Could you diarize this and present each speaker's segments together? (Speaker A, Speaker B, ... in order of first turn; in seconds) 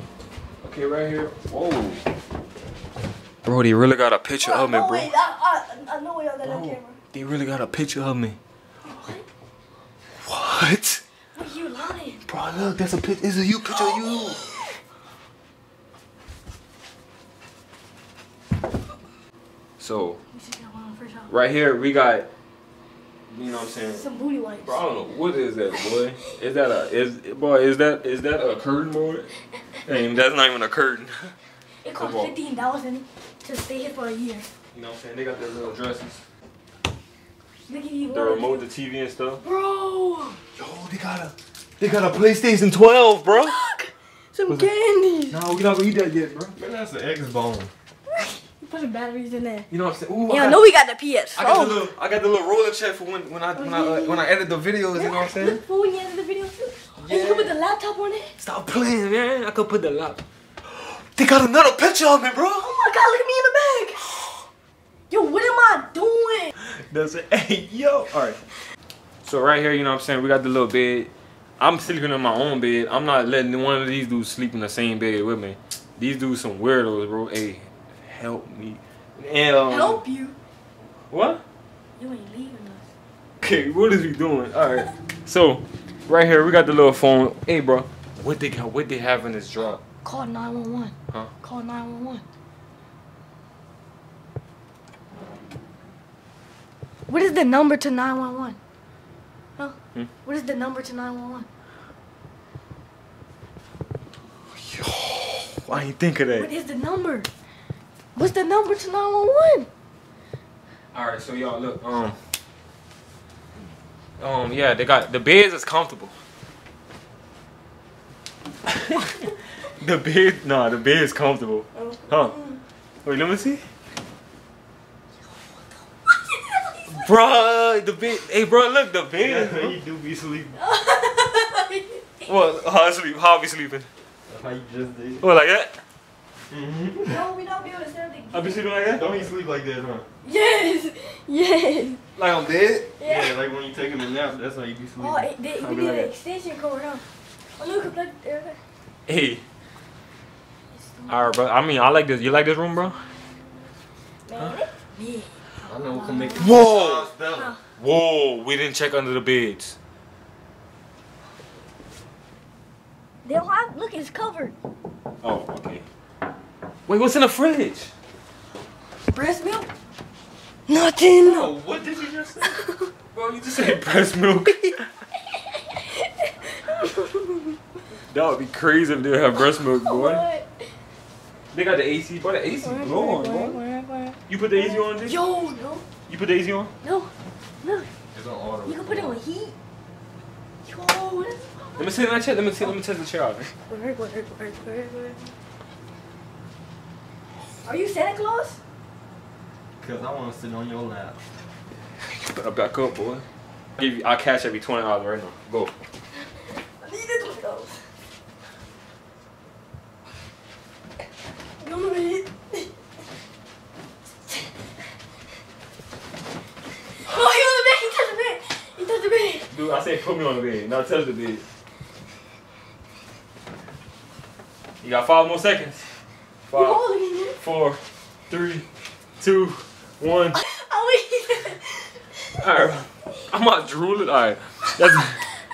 Speaker A: 0.6-2.0, 3.4-5.1, 6.4-8.4, 10.2-11.0, 12.3-14.4, 19.8-20.2, 21.3-22.3, 23.3-24.0, 24.6-29.3, 29.8-31.3, 32.0-32.4, 34.7-36.2, 38.1-39.4, 40.6-43.5, 45.3-46.5, 49.7-50.6, 51.4-55.6, 57.0-57.5, 58.4-62.7, 66.6-68.4, 69.2-80.0, 81.1-81.4, 83.4-89.8, 104.5-106.5, 110.9-112.2, 114.2-116.1, 119.8-122.3, 123.0-123.6, 126.9-129.8, 132.3-133.9, 135.2-135.8, 138.3-139.1, 142.2-142.5, 145.6-146.1, 149.1-149.4, 151.1-153.0, 156.4-157.1, 157.8-159.8, 165.2-165.8, 166.9-167.9, 173.1-174.8, 178.1-180.2, 181.5-183.6, 184.3-185.2, 186.1-186.7, 191.8-193.5, 202.2-203.2, 203.8-205.7, 219.5-221.4, 224.8-225.8, 226.5-228.7, 229.2-230.4, 232.4-235.2
Speaker B: 4.4-7.0, 8.8-9.2, 11.3-12.2, 13.8-14.5, 20.3-21.3, 23.9-24.8, 31.8-34.5, 37.7-38.7, 39.4-40.4, 43.4-45.4, 48.1-49.7, 50.3-51.9, 53.5-54.3, 54.9-58.3, 62.6-64.3, 65.1-66.5, 79.7-80.3, 82.0-82.9, 90.0-92.2, 97.1-98.6, 99.6-101.5, 106.3-107.3, 108.2-109.7, 121.7-122.6, 126.1-127.0, 130.6-132.3, 137.1-138.7, 140.2-142.0, 143.0-143.3, 145.0-147.0, 147.6-148.6, 150.7-151.4, 154.3-155.3, 155.9-156.7, 157.3-157.6, 163.2-164.5, 169.1-169.7, 170.7-171.5, 172.4-172.9, 175.5-177.6, 179.4-180.5, 182.6-185.8, 186.8-187.1, 187.6-187.9, 188.7-189.5, 190.7-192.0, 193.7-195.3, 197.6-198.6, 206.8-207.8, 211.6-212.7, 217.0-219.5, 226.5-227.4, 230.3-231.9
Speaker C: 46.5-47.7, 129.2-130.6, 134.3-135.2, 136.5-137.3, 138.9-140.1, 142.2-145.3, 155.6-157.5, 171.2-172.6, 188.1-189.2, 199.8-201.2